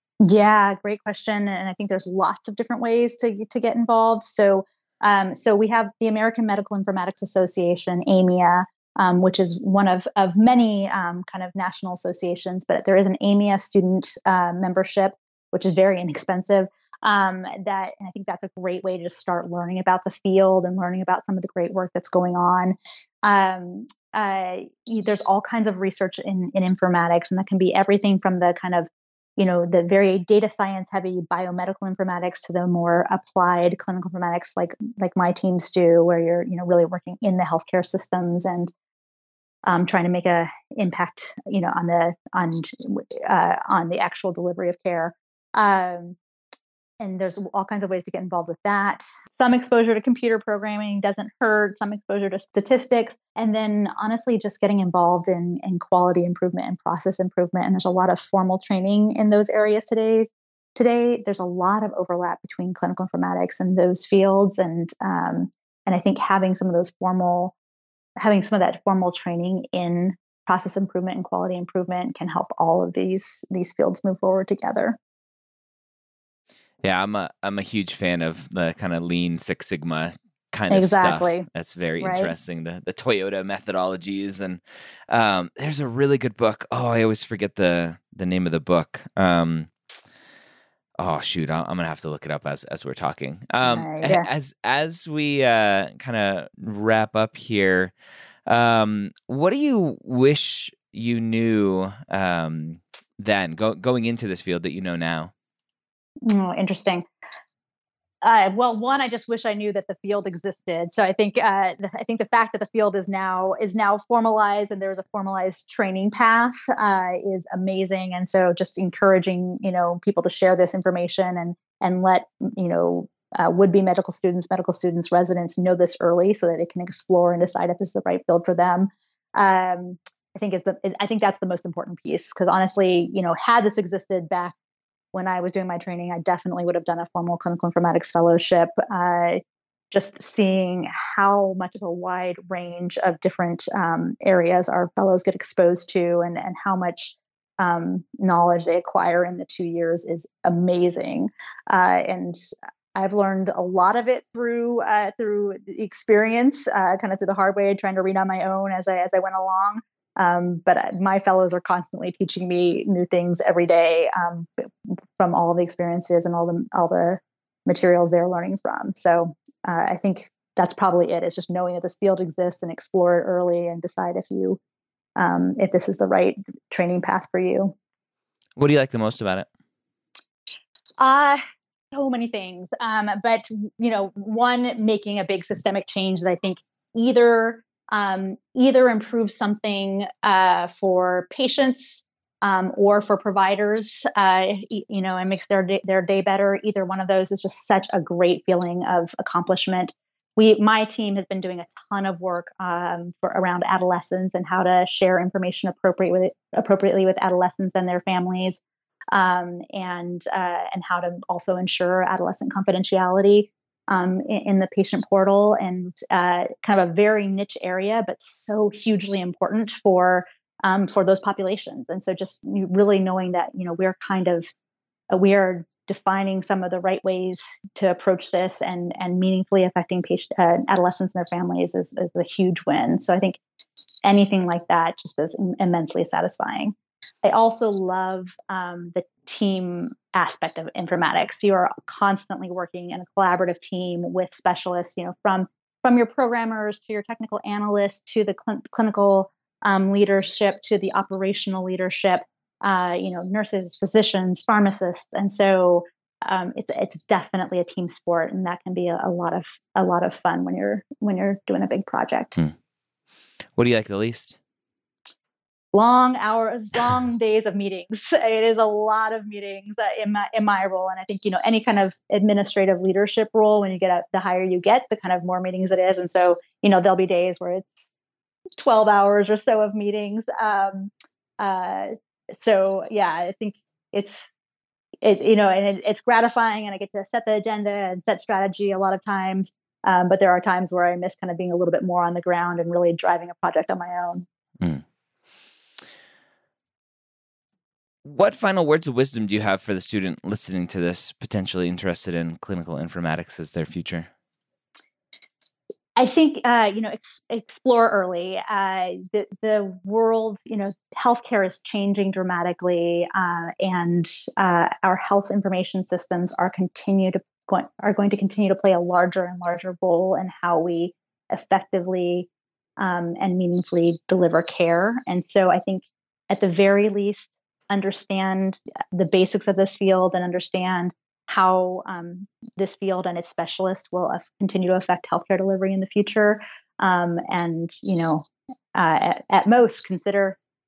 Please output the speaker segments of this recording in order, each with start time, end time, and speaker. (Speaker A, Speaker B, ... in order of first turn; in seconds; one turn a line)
Speaker A: 0.2-38.7
Speaker A: 39.7-46.2
Speaker A: 47.0-67.5
Speaker A: 68.2-75.0
Speaker B: 76.8-89.7
Speaker A: 80.7-81.5
Speaker A: 82.0-82.3
Speaker B: 91.0-97.9
Speaker A: 93.6-94.3
Speaker B: 98.5-105.3
Speaker A: 106.3-107.0
Speaker A: 108.2-134.6
Speaker A: 135.1-152.4
Speaker A: 152.9-174.6
Speaker A: 175.2-177.7
Speaker B: 178.6-179.5
Speaker A: 181.0-181.4
Speaker A: 181.9-208.6
Speaker A: 209.1-224.5
Speaker A: 225.1-233.4
Speaker A: 234.0-262.4
Speaker B: 263.6-264.4
Speaker A: 265.7-277.9
Speaker A: 278.6-284.3
Speaker A: 285.0-294.3
Speaker B: 298.0-304.1
Speaker A: 306.0-340.4